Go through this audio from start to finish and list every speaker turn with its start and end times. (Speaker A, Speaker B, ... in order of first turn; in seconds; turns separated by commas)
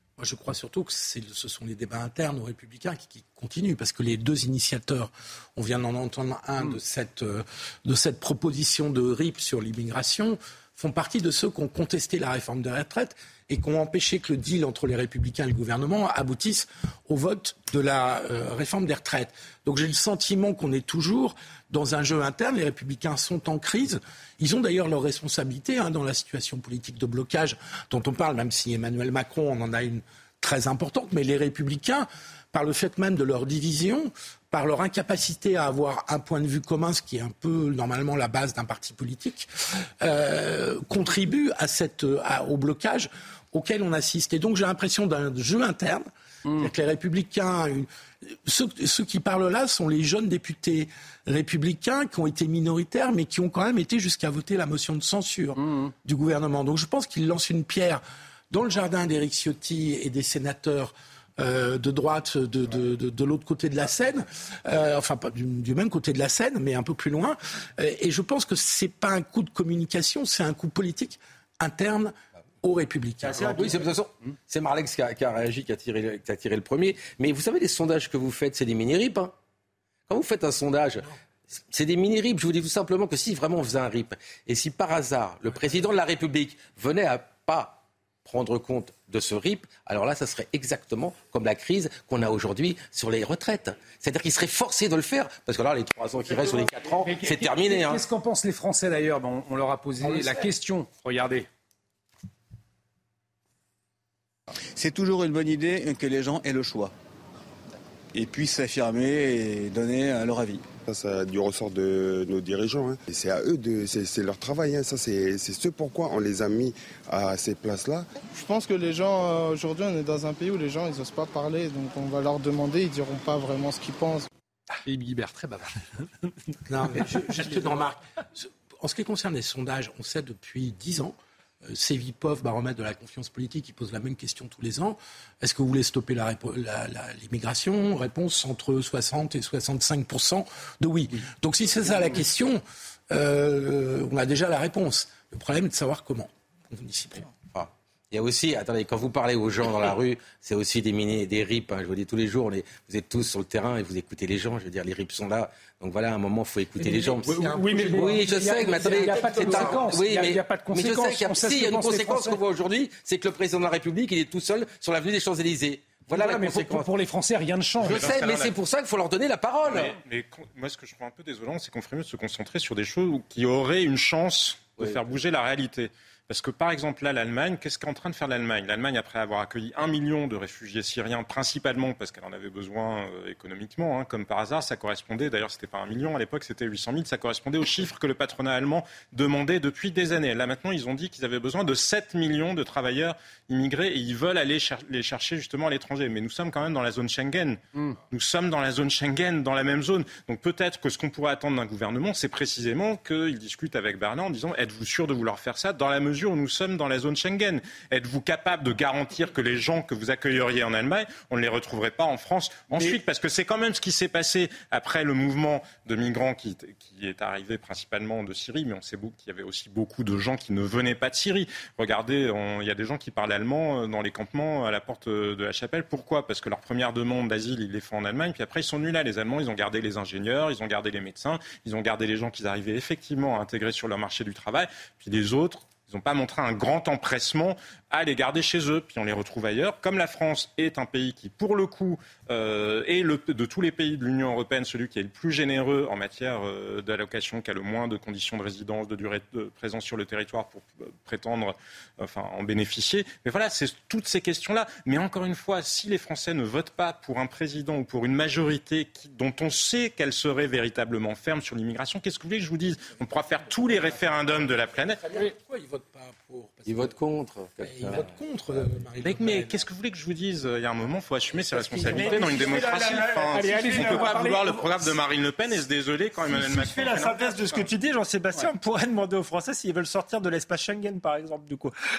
Speaker A: 0.2-39.5, Speaker A: 40.0-73.5, Speaker B: 46.5-46.7, Speaker B: 55.6-55.9, Speaker C: 73.2-73.9, Speaker D: 73.5-79.3, Speaker D: 80.1-98.0, Speaker B: 96.2-101.5, Speaker A: 100.0-100.5, Speaker E: 104.8-106.9, Speaker E: 108.1-110.7, Speaker F: 110.8-118.1, Speaker G: 118.3-124.3, Speaker B: 124.8-126.1, Speaker A: 126.7-147.3, Speaker D: 147.5-166.9, Speaker B: 156.8-162.4, Speaker A: 156.9-160.0, Speaker B: 166.1-168.3, Speaker H: 167.8-168.5, Speaker D: 167.8-169.9, Speaker H: 169.6-197.6, Speaker H: 198.1-265.0, Speaker B: 212.7-213.0, Speaker A: 263.6-267.0, Speaker D: 266.7-268.0, Speaker A: 267.6-269.6, Speaker H: 269.0-277.7, Speaker A: 271.5-271.9, Speaker C: 271.8-274.2, Speaker B: 271.9-274.6, Speaker C: 276.2-281.7